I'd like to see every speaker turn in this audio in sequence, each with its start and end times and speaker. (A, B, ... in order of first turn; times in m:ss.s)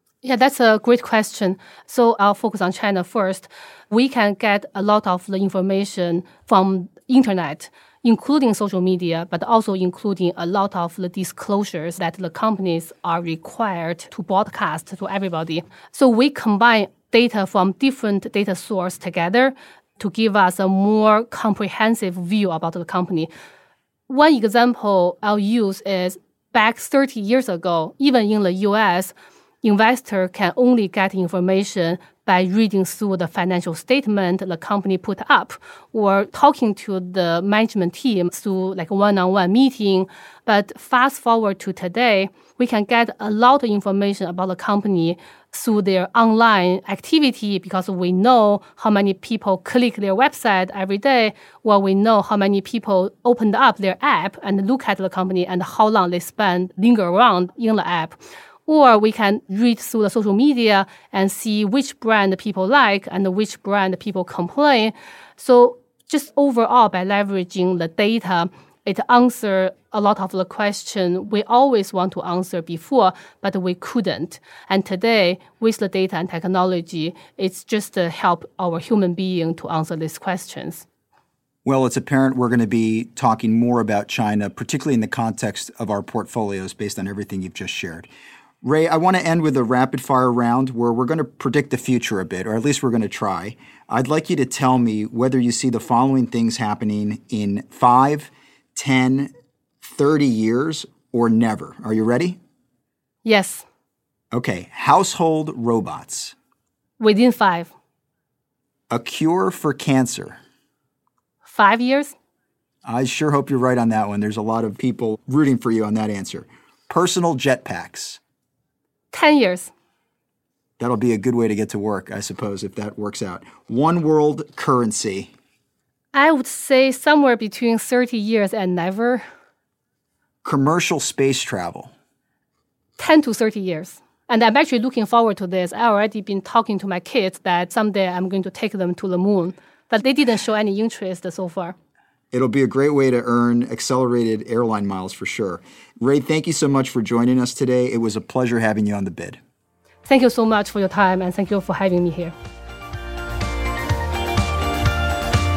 0:00.2-0:23.3 A
0:24.1-1:20.9 A
1:21.6-1:28.1 B
1:28.6-1:42.4 B
1:43.2-1:43.6 A
1:44.3-1:46.4 B
1:47.0-1:47.7 A
1:48.9-1:50.4 B
1:51.4-1:52.1 A
1:52.8-1:58.2 B
1:59.1-1:59.7 A
2:00.8-2:05.3 B
2:06.1-2:09.2 A
2:10.4-2:11.9 B
2:13.0-2:21.7 A
2:22.3-2:29.4 B
2:30.0-2:32.3 A